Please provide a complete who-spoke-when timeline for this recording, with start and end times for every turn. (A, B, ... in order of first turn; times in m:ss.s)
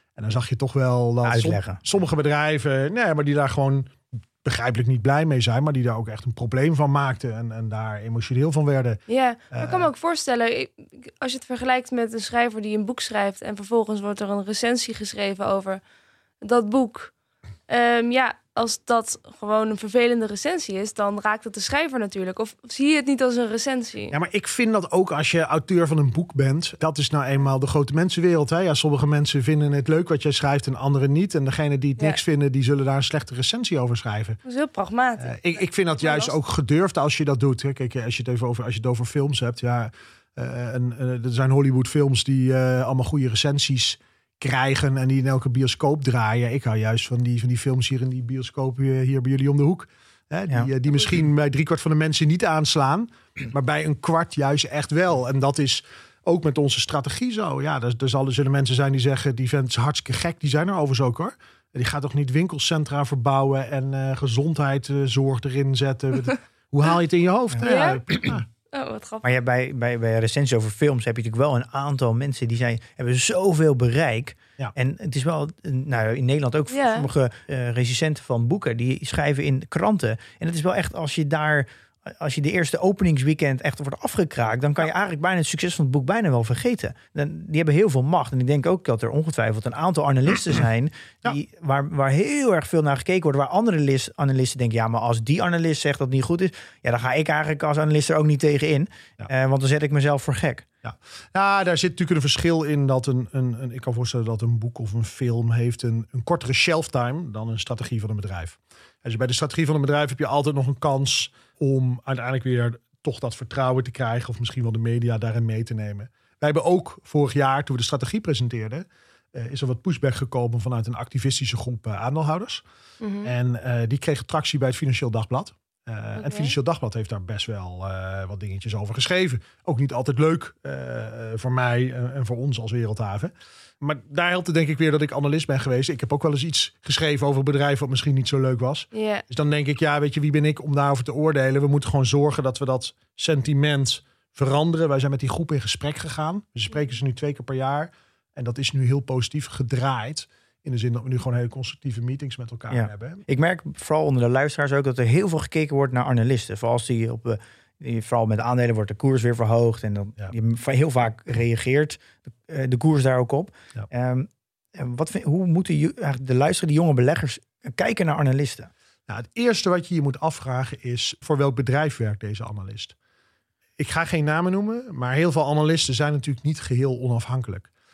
0:00.2-0:09.0 A
0:01.2-0:01.8 B
0:09.1-0:15.8 C
0:09.5-0:09.9 A
0:16.4-0:17.1 C
0:17.7-0:24.1 C
0:24.1-0:34.4 A
0:34.4-0:35.4 C
0:35.2-1:08.4 A
0:36.0-0:36.3 C
1:07.5-1:08.4 B
1:07.6-1:08.1 C
1:08.7-1:09.2 C
1:09.2-1:40.6 B
1:16.7-1:17.1 C
1:40.8-2:02.6 A
2:03.0-2:03.3 C
2:03.2-2:33.2 A
2:06.2-2:06.5 C
2:18.9-2:19.2 C
2:32.7-2:48.7 B
2:49.1-2:52.9 A
2:53.8-2:57.7 A